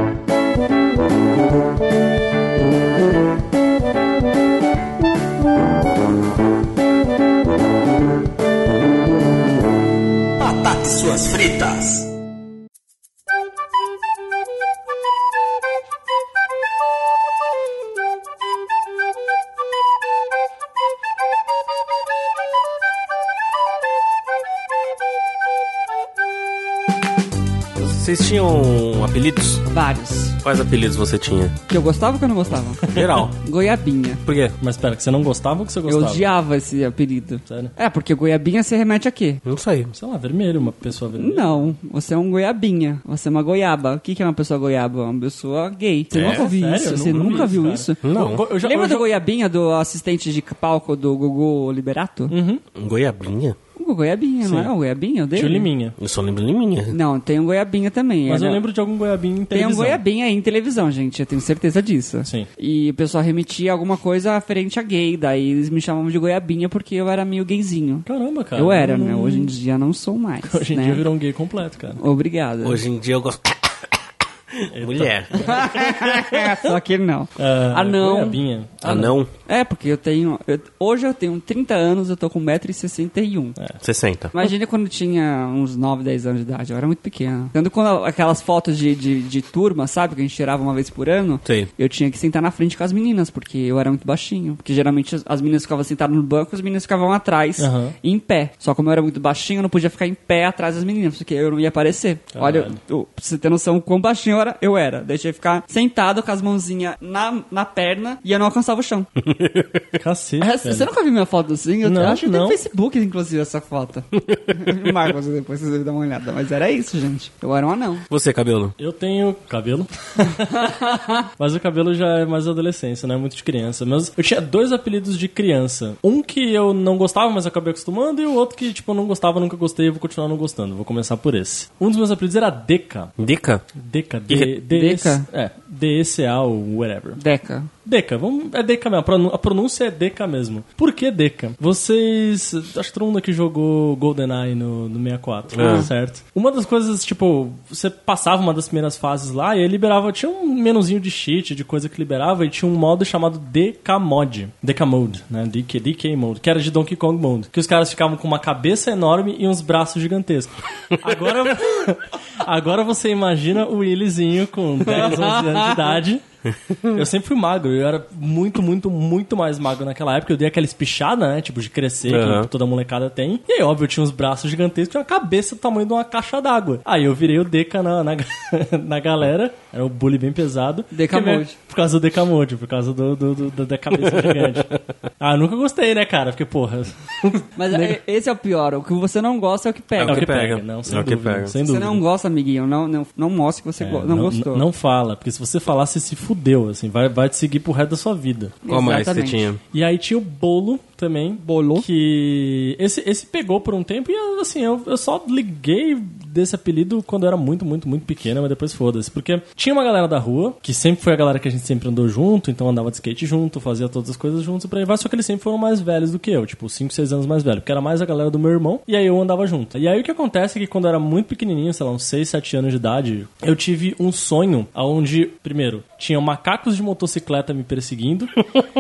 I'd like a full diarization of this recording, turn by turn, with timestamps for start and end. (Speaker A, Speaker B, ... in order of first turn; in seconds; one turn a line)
Speaker A: 10.4-12.1
Speaker A: 27.8-29.6
Speaker B: 29.7-30.4
Speaker A: 30.4-31.6
Speaker B: 31.7-34.2
Speaker C: 32.9-33.3
Speaker A: 32.9-33.3
Speaker A: 34.2-34.5
Speaker C: 34.6-36.3
Speaker B: 35.9-39.4
Speaker C: 37.5-37.7
Speaker A: 39.5-39.9
Speaker C: 39.9-41.7
Speaker B: 41.2-52.4
Speaker A: 46.1-46.5
Speaker C: 46.1-49.1
Speaker A: 47.1-47.4
Speaker A: 48.0-48.4
Speaker C: 52.3-52.6
Speaker A: 52.8-53.6
Speaker B: 53.8-55.7
Speaker C: 54.4-54.7
Speaker C: 55.3-56.0
Speaker A: 56.0-57.0
Speaker B: 56.9-58.6
Speaker C: 58.3-60.0
Speaker B: 59.5-68.0
Speaker C: 68.1-69.5
Speaker B: 68.6-71.0
Speaker C: 70.5-72.0
Speaker B: 72.0-72.8
Speaker A: 72.6-74.0
Speaker A: 74.5-76.1
Speaker C: 74.7-75.7
Speaker B: 75.3-78.4
Speaker C: 77.4-79.2
Speaker A: 78.8-79.3
Speaker B: 79.5-83.6
Speaker A: 83.8-84.4
Speaker B: 84.3-109.1
Speaker C: 97.6-98.0
Speaker C: 102.3-102.8
Speaker A: 109.2-109.8
Speaker C: 110.0-110.9
Speaker B: 110.4-118.0
Speaker C: 111.8-112.6
Speaker A: 118.1-118.8
Speaker C: 118.8-120.7
Speaker B: 120.3-121.3
Speaker C: 121.4-133.1
Speaker A: 133.2-133.6
Speaker C: 133.8-137.2
Speaker B: 134.7-135.3
Speaker B: 137.2-137.7
Speaker C: 137.8-166.2
Speaker A: 145.5-145.9
Speaker B: 145.6-145.9
Speaker B: 164.8-165.9
Speaker C: 166.9-184.7
Speaker A: 172.1-172.5
Speaker B: 180.9-181.6
Speaker A: 184.1-184.8
Speaker C: 185.2-188.0
Speaker B: 187.6-190.3
Speaker A: 190.0-191.5
Speaker C: 190.0-192.0
Speaker B: 191.6-194.7
Speaker C: 193.8-198.6
Speaker B: 198.7-199.5
Speaker A: 198.7-199.6
Speaker C: 199.7-228.4
Speaker B: 201.4-201.9